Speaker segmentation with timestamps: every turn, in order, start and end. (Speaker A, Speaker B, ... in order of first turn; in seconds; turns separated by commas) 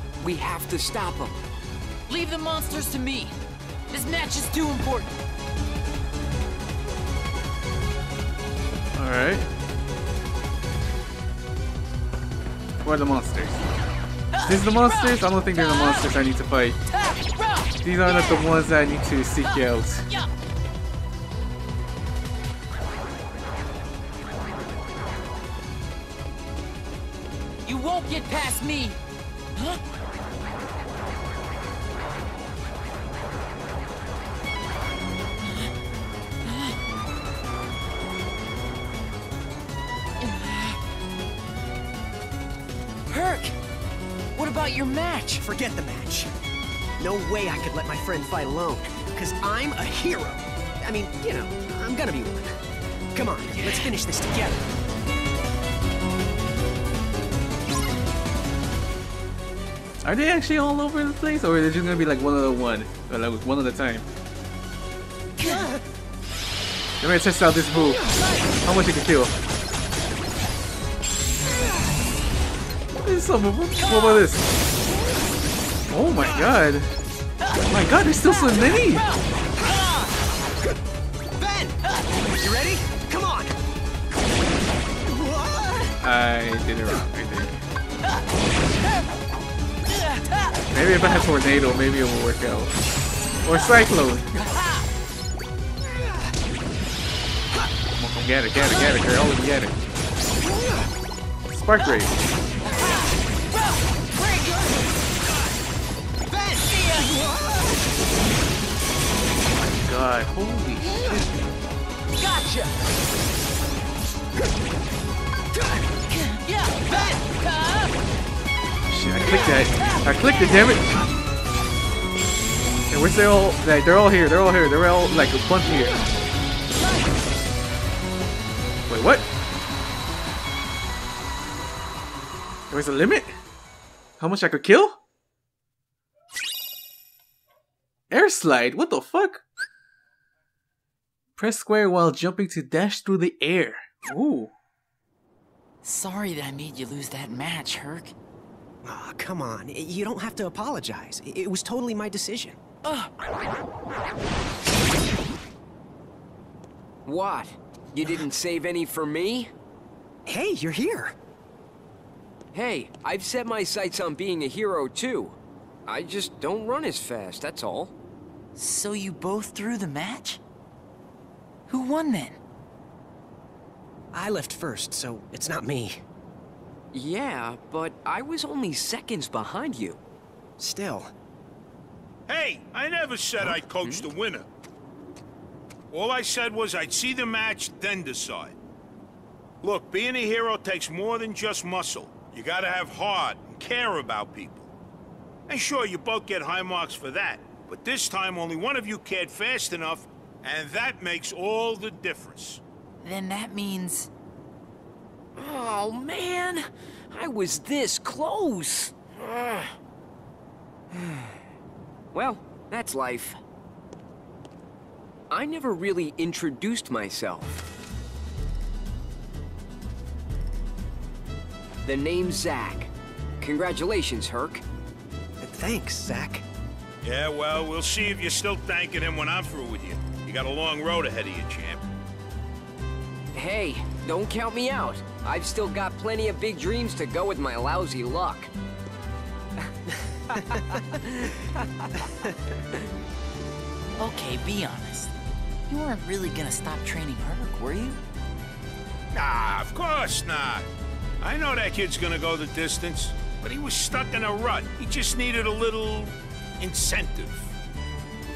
Speaker A: 0.2-1.4, Speaker B: 2.1-3.4, Speaker B: 3.9-5.2, Speaker C: 8.9-9.5, Speaker C: 12.8-13.6, Speaker C: 14.4-16.8, Speaker C: 17.8-20.1, Speaker B: 27.6-29.0, Speaker B: 29.5-29.8, Speaker B: 35.4-35.7, Speaker B: 36.4-36.8, Speaker B: 40.2-40.8, Speaker B: 43.1-43.5, Speaker B: 44.4-45.4, Speaker D: 45.4-46.3, Speaker D: 47.0-52.6, Speaker D: 53.1-54.6, Speaker C: 60.0-64.0, Speaker C: 67.0-68.0, Speaker C: 68.6-69.3, Speaker C: 73.0-74.5, Speaker C: 75.9-77.0, Speaker C: 77.7-79.1, Speaker D: 81.4-81.8, Speaker D: 82.4-83.6, Speaker D: 85.0-85.9, Speaker C: 86.0-87.6, Speaker C: 90.7-92.8, Speaker C: 93.4-94.4, Speaker C: 97.9-99.8, Speaker C: 101.5-102.2, Speaker B: 106.6-107.2, Speaker D: 107.4-107.7, Speaker C: 109.6-111.3, Speaker B: 112.2-112.7, Speaker B: 116.1-116.7, Speaker C: 118.9-121.0, Speaker C: 122.9-126.0, Speaker C: 128.9-129.3, Speaker C: 132.7-133.4, Speaker C: 134.2-135.0, Speaker C: 138.1-139.4, Speaker C: 141.3-144.5, Speaker B: 145.8-148.1, Speaker D: 148.8-152.6, Speaker A: 157.1-159.5, Speaker D: 160.2-161.1, Speaker A: 162.5-167.9, Speaker B: 168.5-170.4, Speaker B: 171.7-172.4, Speaker D: 174.1-176.0, Speaker A: 176.9-180.0, Speaker D: 180.6-181.1, Speaker E: 182.3-184.4, Speaker A: 183.5-184.1, Speaker E: 185.9-188.5, Speaker E: 189.6-194.7, Speaker E: 195.5-202.6, Speaker B: 203.0-204.1, Speaker A: 205.3-209.8, Speaker A: 210.9-211.3, Speaker A: 212.1-213.4, Speaker A: 215.3-217.6, Speaker A: 221.8-224.6, Speaker D: 225.4-226.4, Speaker E: 227.0-231.8, Speaker A: 233.3-238.5, Speaker A: 240.3-242.1, Speaker B: 244.0-245.1, Speaker B: 245.7-248.0, Speaker E: 249.1-250.7, Speaker E: 251.2-257.6